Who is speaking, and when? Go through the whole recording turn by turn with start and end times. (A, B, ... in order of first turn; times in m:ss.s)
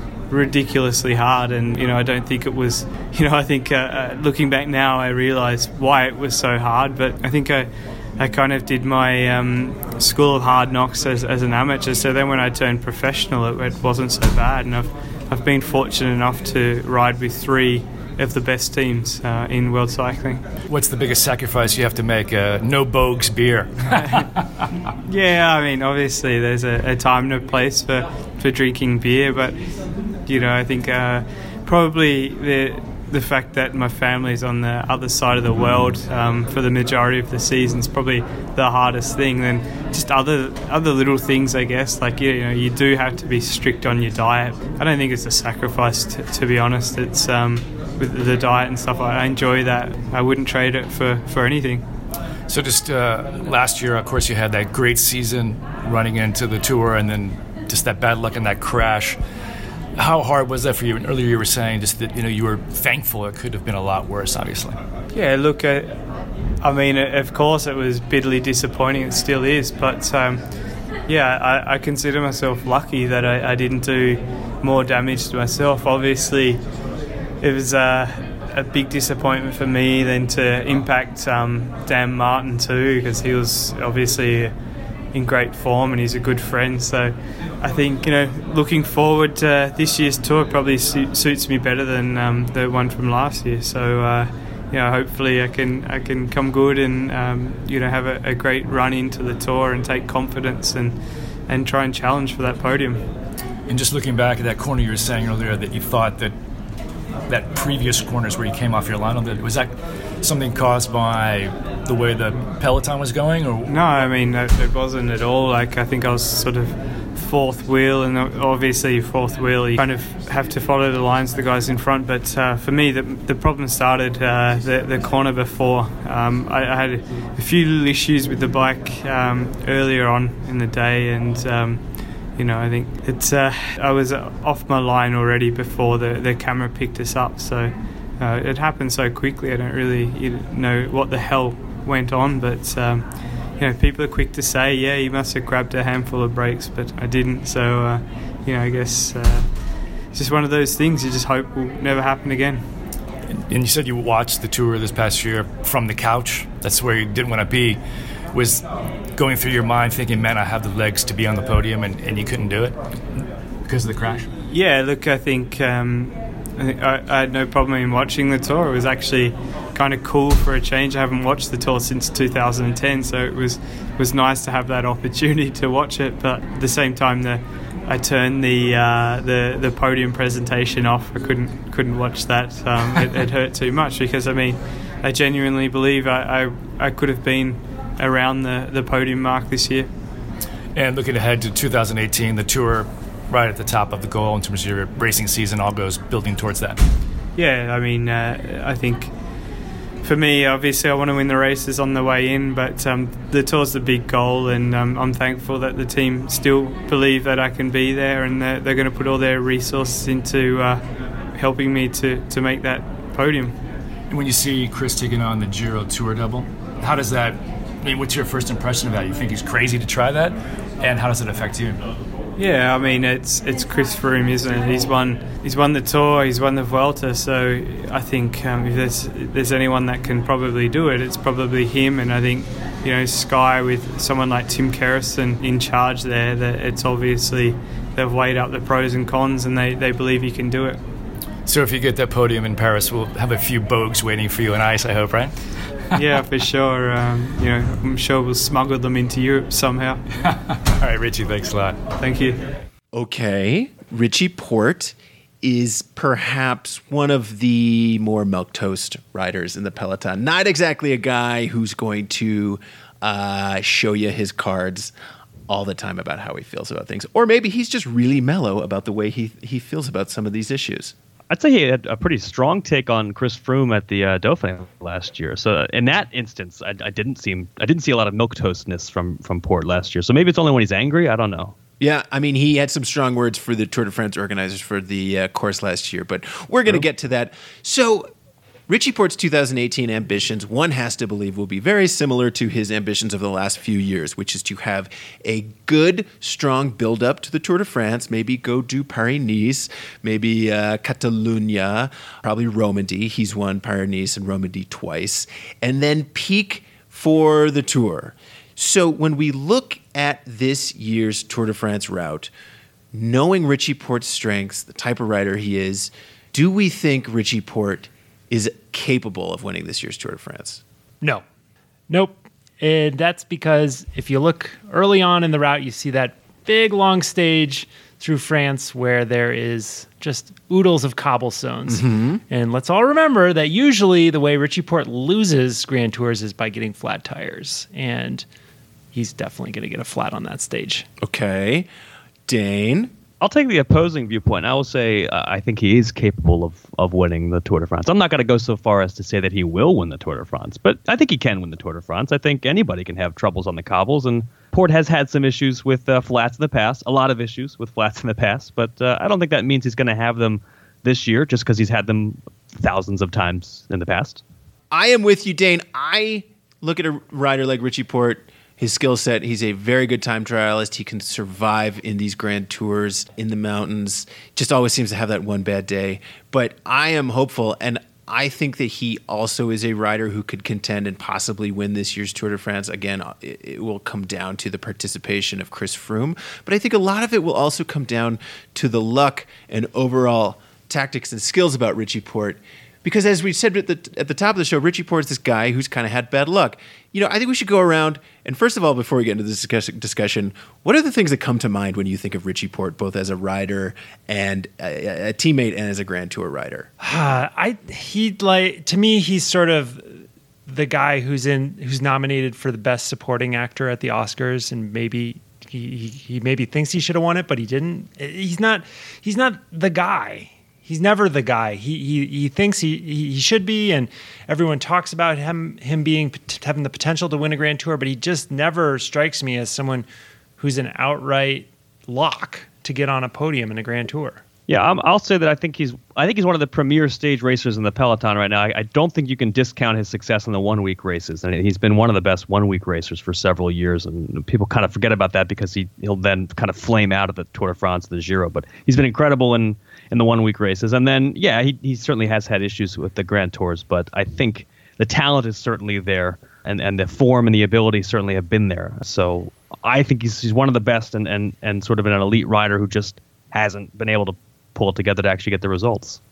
0:00.3-0:20.4 A
0:20.7-0:24.2 B
0:25.0-0:51.8 A
0:52.5-0:59.2 B
1:00.0-1:04.8 B
1:05.1-1:06.1 A
1:06.6-1:16.6 A
1:17.4-1:24.6 A
1:25.1-1:43.0 A
1:43.7-1:46.3 B
1:47.3-1:53.8 B
1:53.7-2:32.7 A
2:33.5-2:37.8 B
2:38.3-2:42.8 B
2:43.6-2:44.3 B
2:44.5-3:09.9 A
3:10.7-3:16.8 B
3:17.4-3:19.3 A
3:20.0-3:33.6 A
3:34.1-3:41.8 B
3:42.4-4:00.8 A
4:01.4-4:05.4 B
4:05.9-4:10.0 A
4:10.6-4:11.8 B
4:12.0-4:12.4 A
4:12.9-4:24.9 C
4:25.5-4:30.9 C
4:31.3-4:41.5 D
4:41.8-4:48.1 C
4:48.7-5:12.3 C
5:12.9-5:20.6 C
5:21.9-5:38.2 E
5:31.7-5:32.2 C
5:38.9-5:40.8 E
5:41.0-5:41.7 C
5:42.3-5:42.9 C
5:43.2-6:04.2 D
6:04.7-6:46.7 C
6:46.8-7:09.8 E
7:10.4-7:14.2 E
7:14.5-7:46.0 D